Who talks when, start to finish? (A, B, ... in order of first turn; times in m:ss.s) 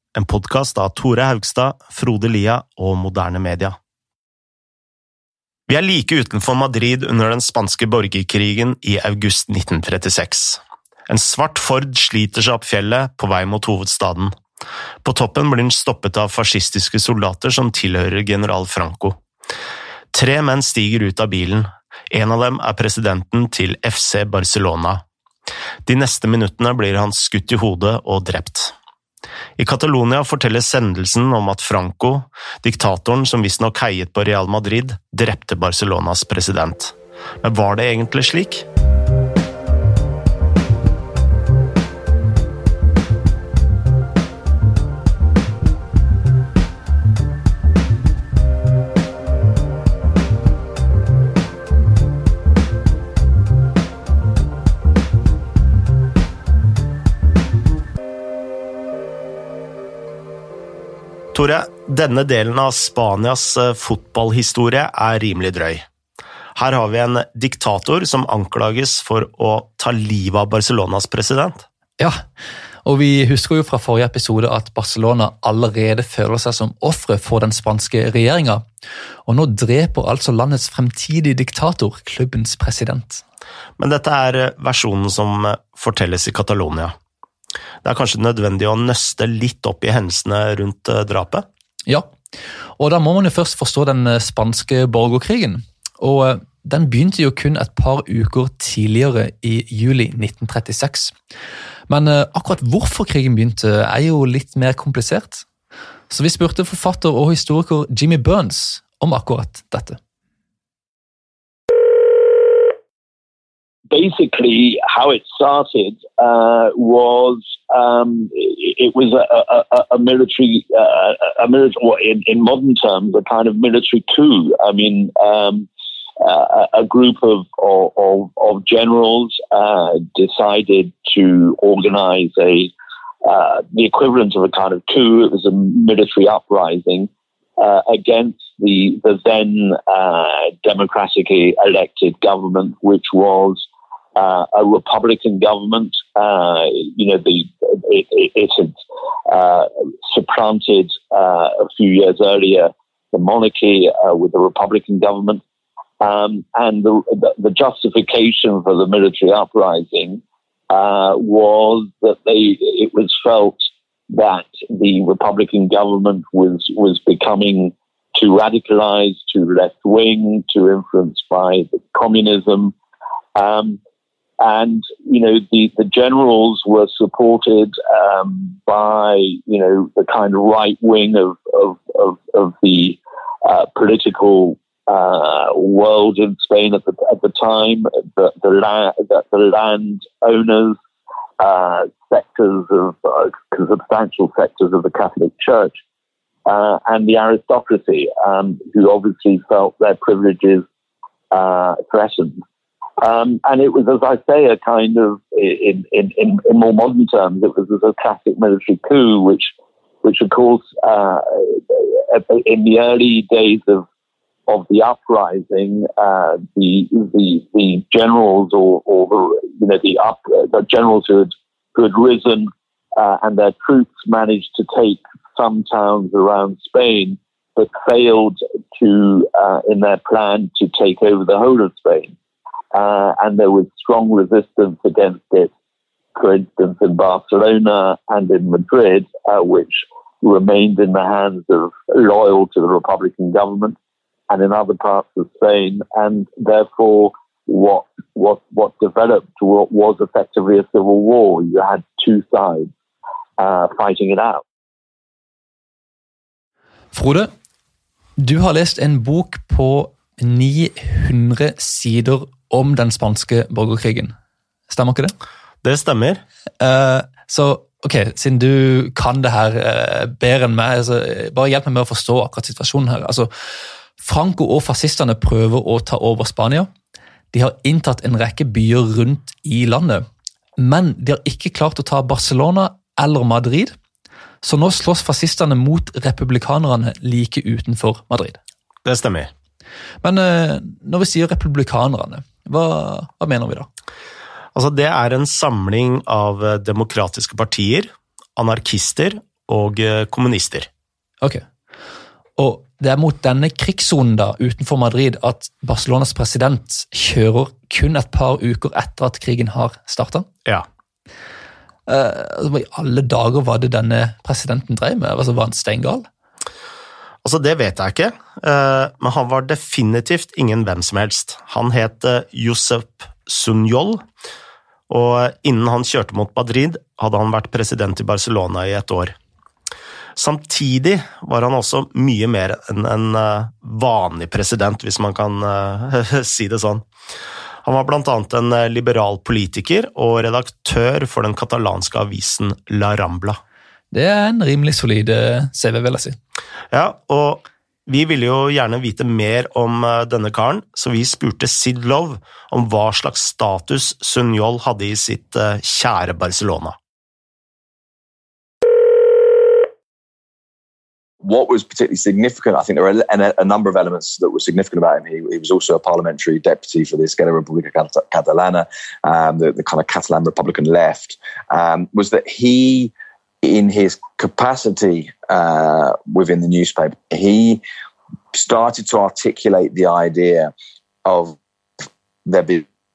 0:00.2-0:03.8 A
0:05.7-0:14.4 A
0:15.0-0:19.2 A
0:20.1-0:25.0 A
0:25.9-0:28.8 A
0:29.6-0:38.7 A
1:01.3-1:05.9 A
1:06.6-1:11.7 A
1:12.8-1:18.6 B
1:19.3-1:23.2 B
1:23.8-1:26.9 A
1:27.8-1:31.5 A
1:31.9-1:32.1 B
1:32.8-1:41.2 B
1:41.9-1:45.5 B
1:46.1-1:50.0 B
1:53.9-2:05.7 C
2:06.2-2:12.7 C
2:13.2-2:35.4 C
2:36.0-2:52.7 C
2:53.4-2:53.8 C
2:54.4-3:10.8 C
3:11.4-3:15.8 C
3:16.5-3:20.6 C
3:21.3-3:22.4 C
3:23.0-3:33.9 C
3:34.5-3:52.2 C
3:52.7-3:55.5 C
3:56.2-4:03.8 C
4:04.3-4:12.7 C
4:13.4-4:14.4 C
4:16.9-4:17.3 B
4:18.2-4:24.1 B
4:24.7-4:25.1 B
4:25.6-4:26.2 A
4:26.6-4:33.3 B
4:34.0-4:36.7 B
4:37.3-4:40.0 B
4:40.6-4:43.7 B
4:44.4-4:48.4 B
4:48.8-4:49.3 A
4:50.0-4:53.7 B
4:54.5-5:00.7 A
5:02.4-5:10.3 B
5:11.9-5:16.1 B
5:17.2-5:24.0 A
5:24.9-5:29.2 A
5:30.2-5:36.8 A
5:37.6-5:43.4 A
5:43.9-5:46.2 B
5:46.7-5:56.8 A
6:01.2-6:12.9 D
6:13.4-6:17.6 D
6:18.3-6:20.5 D
6:21.0-6:21.4 D
6:22.3-6:22.6 D